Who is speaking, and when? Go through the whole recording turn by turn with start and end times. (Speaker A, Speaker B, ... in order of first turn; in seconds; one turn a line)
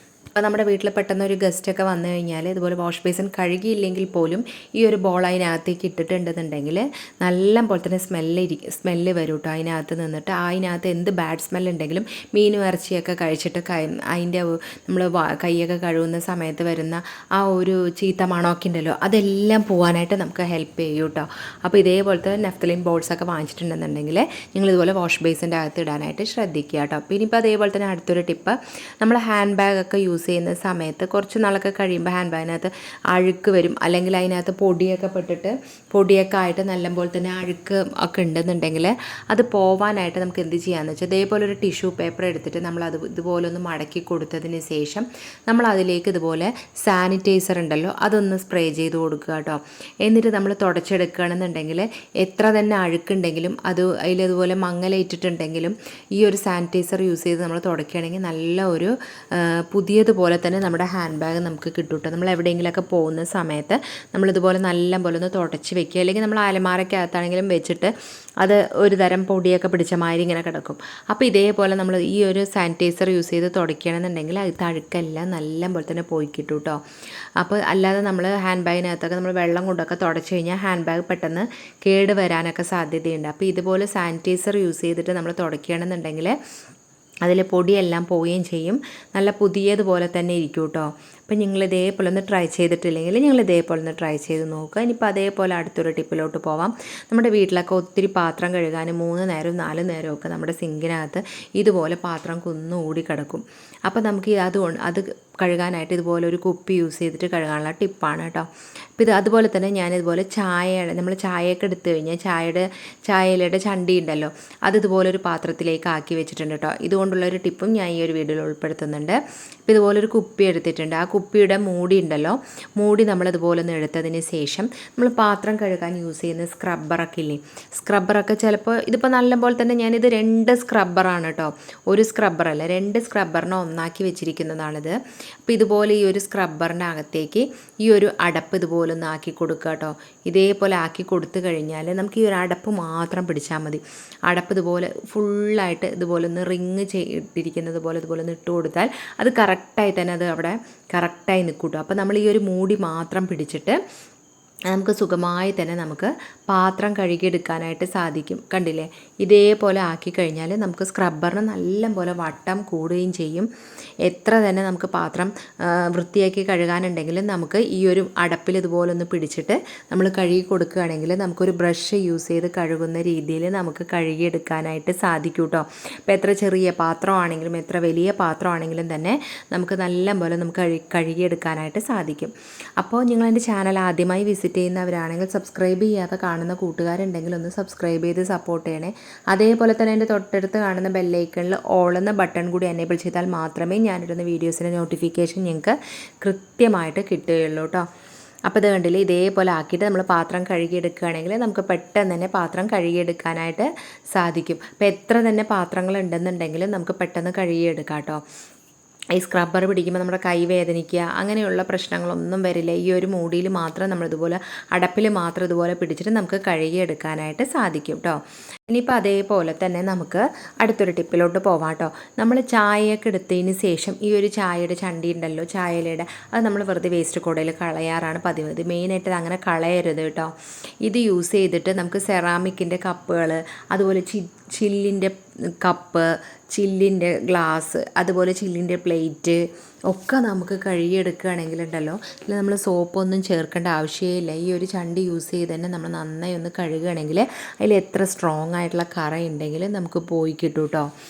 Speaker A: 0.3-76.8
Speaker A: 77.4-86.3
Speaker A: 87.2-153.8
Speaker A: 154.7-163.5
Speaker A: 164.1-197.9
Speaker A: 198.5-208.2
Speaker A: 209.2-230.3
Speaker A: 230.8-250.9